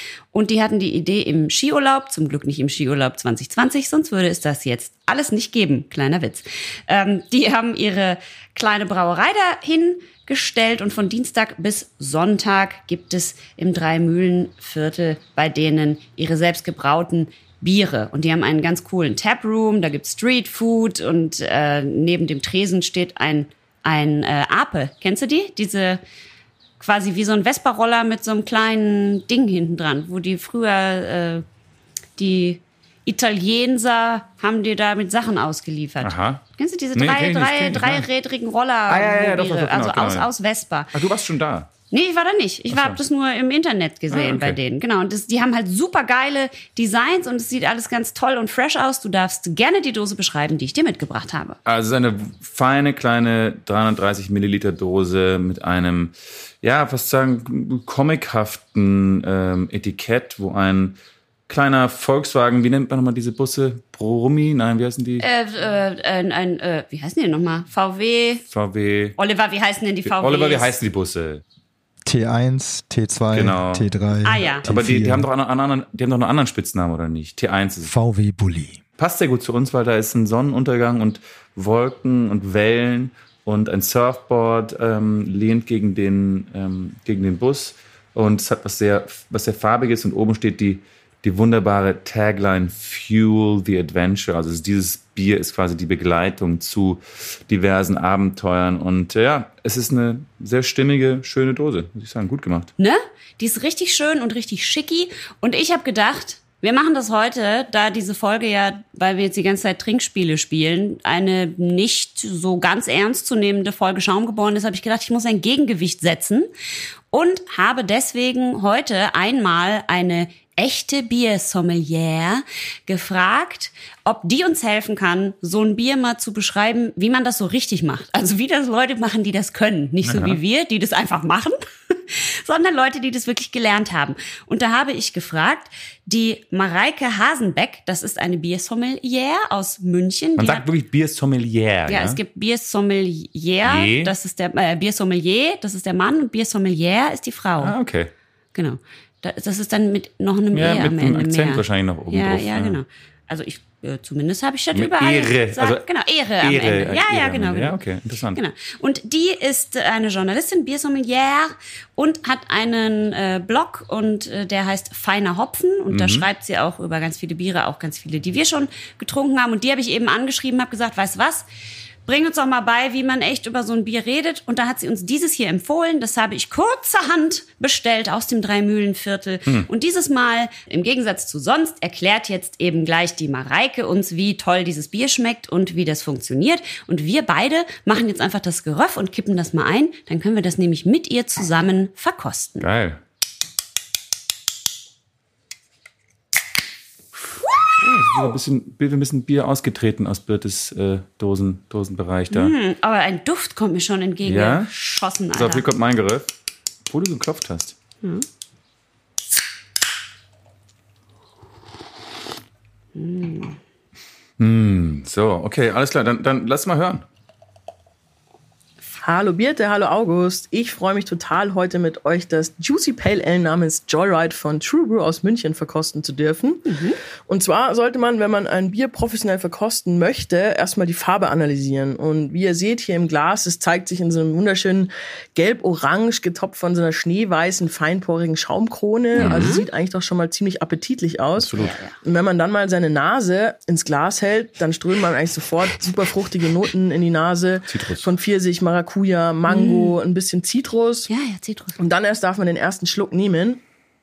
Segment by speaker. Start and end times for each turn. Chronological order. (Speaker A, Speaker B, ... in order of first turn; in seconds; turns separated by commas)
Speaker A: 0.3-26.0, Speaker A: 26.8-31.4, Speaker A: 32.2-40.9, Speaker B: 36.0-36.4, Speaker B: 36.9-38.0, Speaker B: 38.9-40.3, Speaker B: 40.9-41.7, Speaker A: 41.9-51.6, Speaker B: 42.7-43.0, Speaker B: 44.1-44.6, Speaker B: 51.6-65.2, Speaker A: 65.2-68.4, Speaker B: 68.5-69.2, Speaker A: 69.2-70.7, Speaker B: 70.0-71.4, Speaker C: 72.0-75.3, Speaker B: 73.3-73.9, Speaker A: 74.2-74.7, Speaker B: 74.6-77.9, Speaker C: 77.8-78.8, Speaker B: 79.0-102.7, Speaker A: 102.8-116.5, Speaker A: 117.1-140.7, Speaker B: 130.0-130.4, Speaker B: 140.4-142.2, Speaker A: 141.9-147.8, Speaker B: 143.6-144.1, Speaker B: 147.6-148.1, Speaker A: 148.5-157.8, Speaker B: 150.5-152.8, Speaker B: 154.7-155.8, Speaker B: 156.4-158.4, Speaker A: 158.3-171.4, Speaker B: 165.9-166.3, Speaker A: 172.1-192.7, Speaker B: 192.6-193.0, Speaker B: 197.8-202.5, Speaker A: 202.3-205.7, Speaker B: 204.2-204.7, Speaker B: 205.3-206.3, Speaker B: 206.9-207.8, Speaker A: 212.9-213.6, Speaker B: 214.4-217.1, Speaker D: 219.0-251.1, Speaker A: 226.7-227.0, Speaker A: 239.1-239.6, Speaker B: 239.2-239.5, Speaker B: 241.4-241.7, Speaker A: 241.6-241.9, Speaker B: 247.7-248.1, Speaker A: 249.5-249.9, Speaker A: 251.1-251.8, Speaker D: 251.8-253.6